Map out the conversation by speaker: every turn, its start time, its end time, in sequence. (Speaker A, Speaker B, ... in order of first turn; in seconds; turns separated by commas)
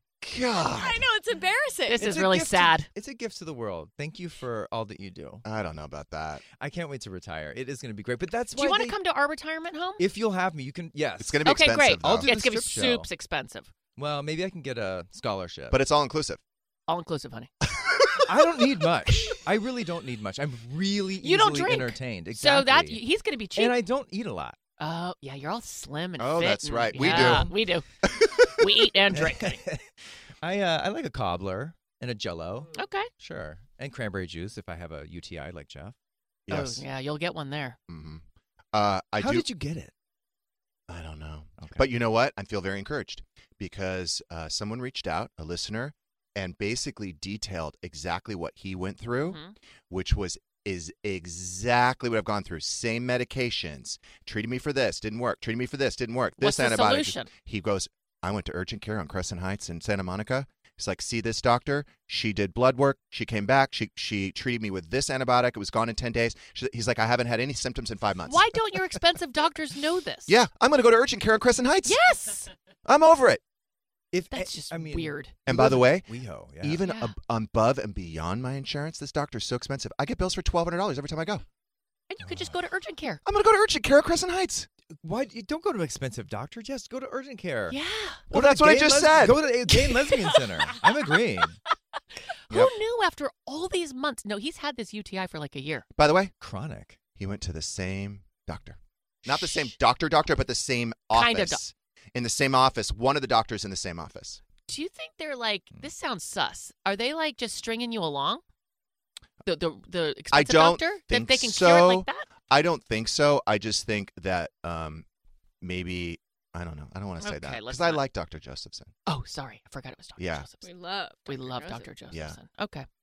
Speaker A: 0.2-1.1, Speaker B: 0.6-2.0, Speaker C: 1.9-2.9, Speaker D: 1.9-5.4, Speaker A: 5.4-6.4, Speaker D: 6.5-9.0, Speaker C: 8.5-10.0, Speaker D: 10.0-13.1, Speaker A: 11.2-12.3, Speaker C: 11.4-13.7, Speaker D: 13.9-15.8, Speaker A: 15.7-16.4, Speaker C: 16.9-17.5, Speaker A: 17.8-18.2, Speaker D: 18.3-23.0, Speaker C: 21.2-23.8, Speaker D: 23.6-24.6, Speaker C: 24.8-27.9, Speaker A: 26.2-27.5, Speaker D: 26.9-27.5, Speaker C: 28.5-29.6, Speaker D: 29.1-29.8, Speaker D: 30.4-35.9, Speaker C: 32.7-33.1, Speaker A: 36.5-36.8, Speaker C: 36.5-37.8, Speaker A: 37.9-39.5, Speaker D: 39.2-39.9, Speaker A: 40.9-68.5, Speaker D: 41.6-41.8, Speaker C: 49.2-49.5, Speaker C: 56.4-57.3, Speaker C: 68.3-70.4, Speaker A: 70.3-72.0, Speaker C: 71.8-72.5, Speaker A: 72.8-73.4, Speaker D: 74.1-76.8, Speaker C: 74.3-75.3, Speaker A: 75.5-81.4, Speaker C: 76.8-77.1, Speaker C: 82.1-83.2, Speaker D: 82.2-82.5, Speaker A: 83.2-84.7, Speaker D: 85.0-87.8, Speaker C: 87.7-88.2, Speaker D: 88.3-91.6, Speaker A: 88.3-89.5, Speaker C: 89.7-90.7, Speaker C: 92.5-95.8, Speaker A: 96.0-96.3, Speaker D: 96.4-97.0, Speaker A: 97.2-104.4, Speaker C: 99.3-99.7, Speaker C: 101.1-101.6, Speaker C: 104.7-108.4, Speaker C: 109.4-112.2, Speaker A: 110.3-115.0, Speaker A: 115.6-118.9, Speaker C: 117.2-118.0, Speaker C: 119.0-120.7, Speaker A: 120.2-120.5, Speaker B: 120.6-121.9, Speaker C: 121.2-122.8, Speaker A: 122.1-122.4